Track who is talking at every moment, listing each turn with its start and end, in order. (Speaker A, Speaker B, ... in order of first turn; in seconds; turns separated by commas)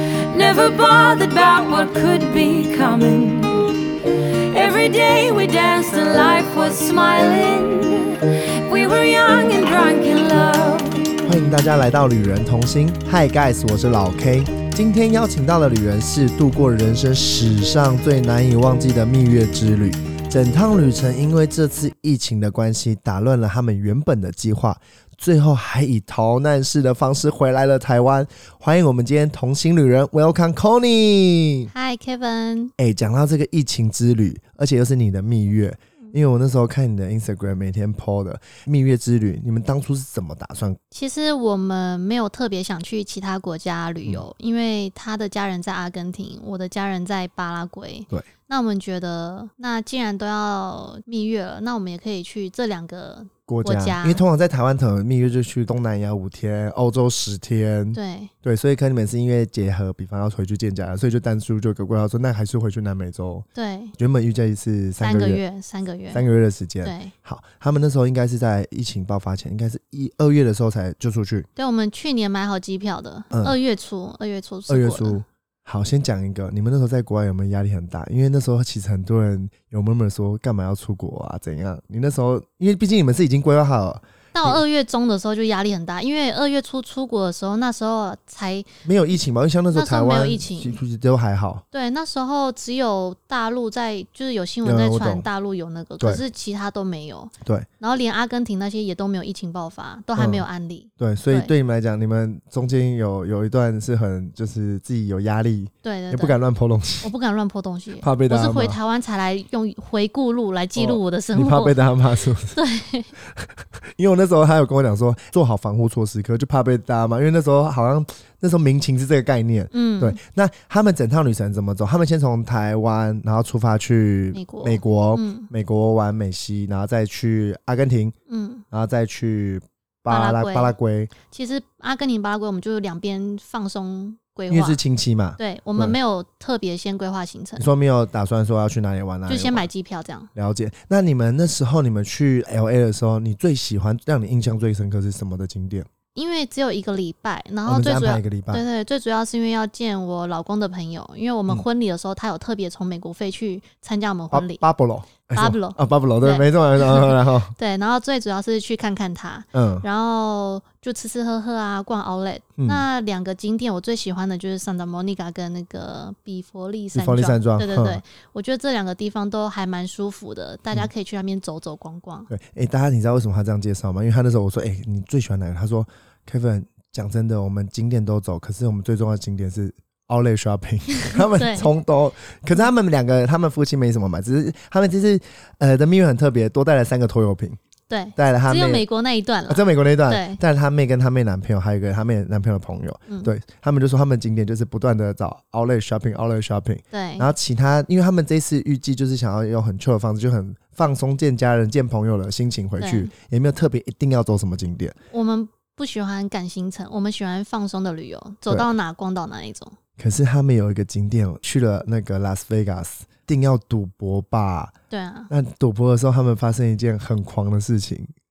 Speaker A: 0.3-11.2, Speaker B: 11.2-31.7, Speaker C: 31.7-32.7, Speaker B: 32.8-40.8, Speaker C: 40.9-54.2, Speaker B: 53.5-63.5, Speaker C: 57.9-58.3, Speaker C: 63.5-64.0, Speaker B: 64.0-65.4, Speaker C: 65.0-66.2, Speaker B: 66.1-71.5, Speaker C: 66.8-67.1, Speaker C: 71.5-75.2, Speaker B: 74.7-84.6, Speaker C: 84.3-88.7, Speaker B: 88.8-91.6, Speaker C: 89.7-90.8, Speaker C: 91.7-101.5, Speaker B: 94.6-95.3, Speaker B: 100.2-100.4, Speaker B: 101.0-107.1, Speaker C: 105.8-106.4, Speaker C: 107.0-111.8, Speaker B: 108.0-108.8, Speaker B: 110.8-112.6, Speaker C: 112.5-113.1, Speaker B: 113.2-128.1, Speaker C: 119.7-120.2, Speaker C: 124.3-125.5, Speaker C: 128.3-128.6, Speaker B: 128.7-131.1, Speaker C: 130.1-134.8, Speaker B: 134.5-136.0, Speaker C: 135.4-137.7, Speaker B: 137.6-139.7, Speaker C: 139.3-140.3, Speaker B: 140.3-145.9, Speaker C: 146.1-154.7, Speaker B: 147.7-148.6, Speaker B: 154.3-157.5, Speaker C: 155.3-172.3, Speaker B: 159.5-159.8, Speaker B: 162.6-162.8, Speaker B: 166.9-168.0, Speaker B: 172.3-187.6, Speaker C: 181.0-181.7, Speaker C: 187.9-190.4, Speaker B: 188.2-188.8, Speaker B: 189.5-204.9, Speaker C: 196.9-197.3, Speaker C: 202.8-203.1, Speaker C: 205.1-209.8, Speaker B: 208.5-208.7, Speaker B: 210.0-214.7, Speaker C: 214.9-215.3, Speaker B: 215.3-218.1